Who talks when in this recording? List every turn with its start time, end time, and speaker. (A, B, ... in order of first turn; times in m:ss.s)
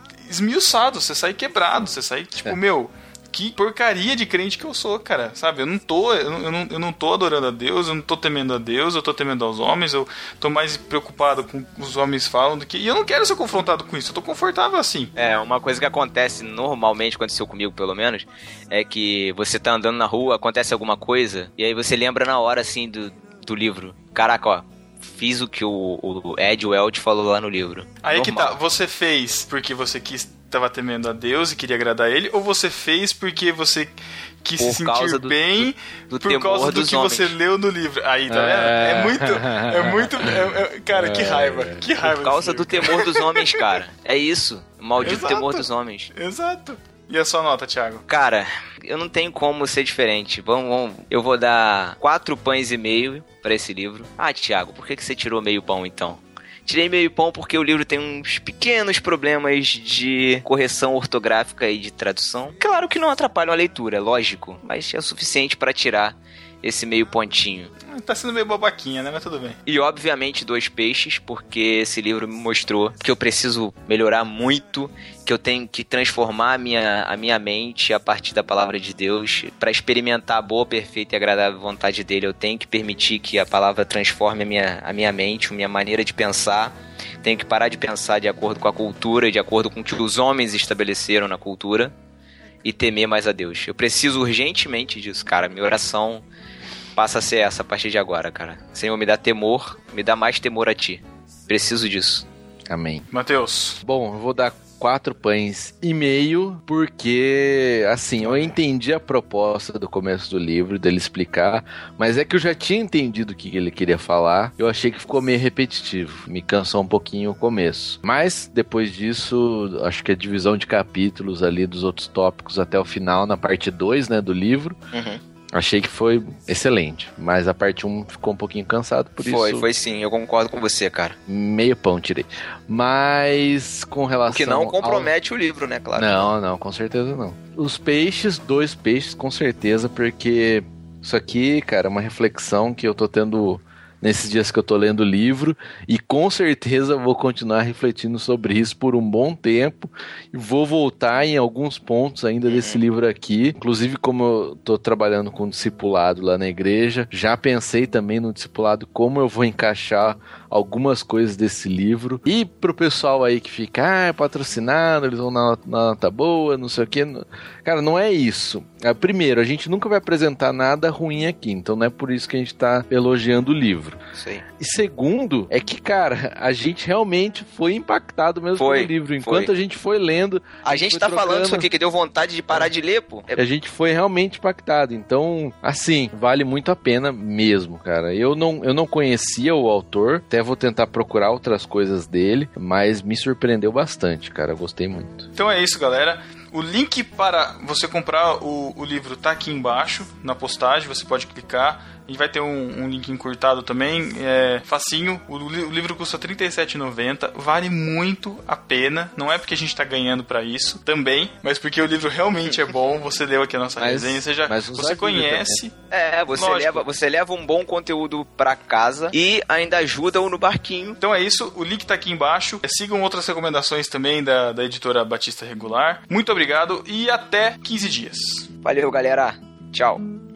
0:00.2-0:15.1 A
0:15.2-0:28.6 B
0:28.0-0:43.6 A
0:34.6-0:35.4 B
0:36.1-0:37.3 B
0:38.3-0:41.9 C
0:42.1-0:46.1 B
0:45.0-0:48.0 A
0:48.1-1:07.7 B
1:07.9-1:09.6 A
1:09.6-1:31.9 B
1:32.6-1:36.2 B
1:37.0-1:42.3 B
1:42.7-1:43.0 C
1:43.1-1:43.8 A
1:43.8-2:04.8 C
1:48.2-1:48.5 A
2:04.9-2:05.2 B
2:05.5-2:09.6 C
2:09.2-2:11.2 B
2:11.3-2:15.1 C
2:14.3-2:16.3 B
2:16.0-2:54.0 C
2:32.4-2:32.8 B
2:54.1-2:54.4 B
2:54.6-3:01.7 C
2:58.6-2:59.5 B
3:00.6-3:03.4 B
3:03.3-3:15.3 C
3:15.3-3:35.7 A
3:33.8-3:35.6 C
3:35.9-3:41.0 B
3:36.3-3:36.8 A
3:41.0-3:48.5 A
3:48.6-3:50.0 B